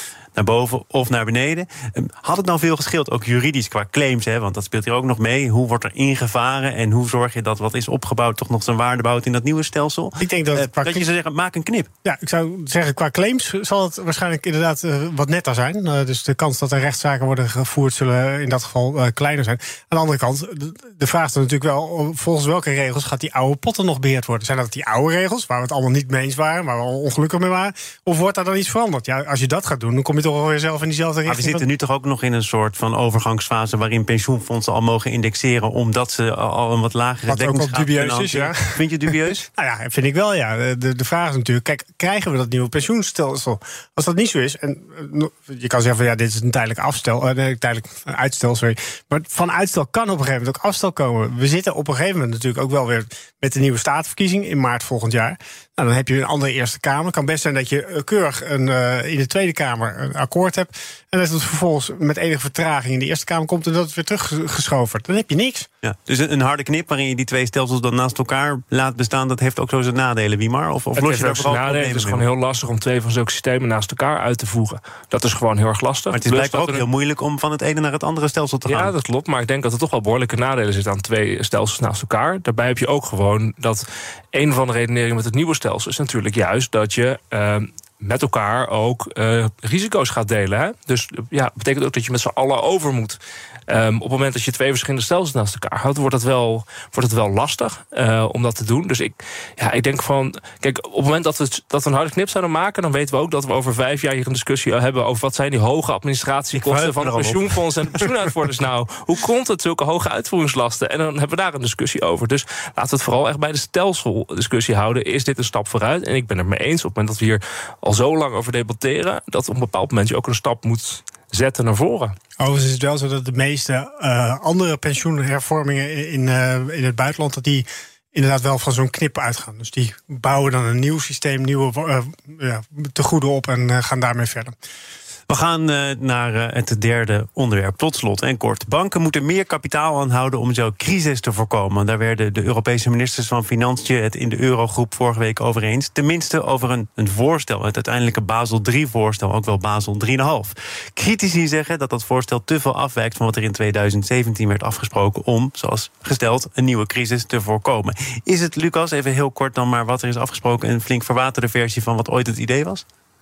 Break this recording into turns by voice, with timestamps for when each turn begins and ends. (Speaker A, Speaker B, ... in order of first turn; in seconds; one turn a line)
Speaker A: 0.4-11.9
Speaker B: 10.2-11.1
Speaker B: 12.1-31.6
Speaker A: 31.2-39.5
Speaker B: 37.3-39.0
Speaker B: 39.5-65.7
Speaker A: 65.8-72.2
Speaker C: 71.0-76.8
Speaker A: 76.1-78.9
Speaker C: 78.7-122.1
Speaker A: 106.5-108.1
Speaker B: 122.4-134.5
Speaker A: 135.3-162.8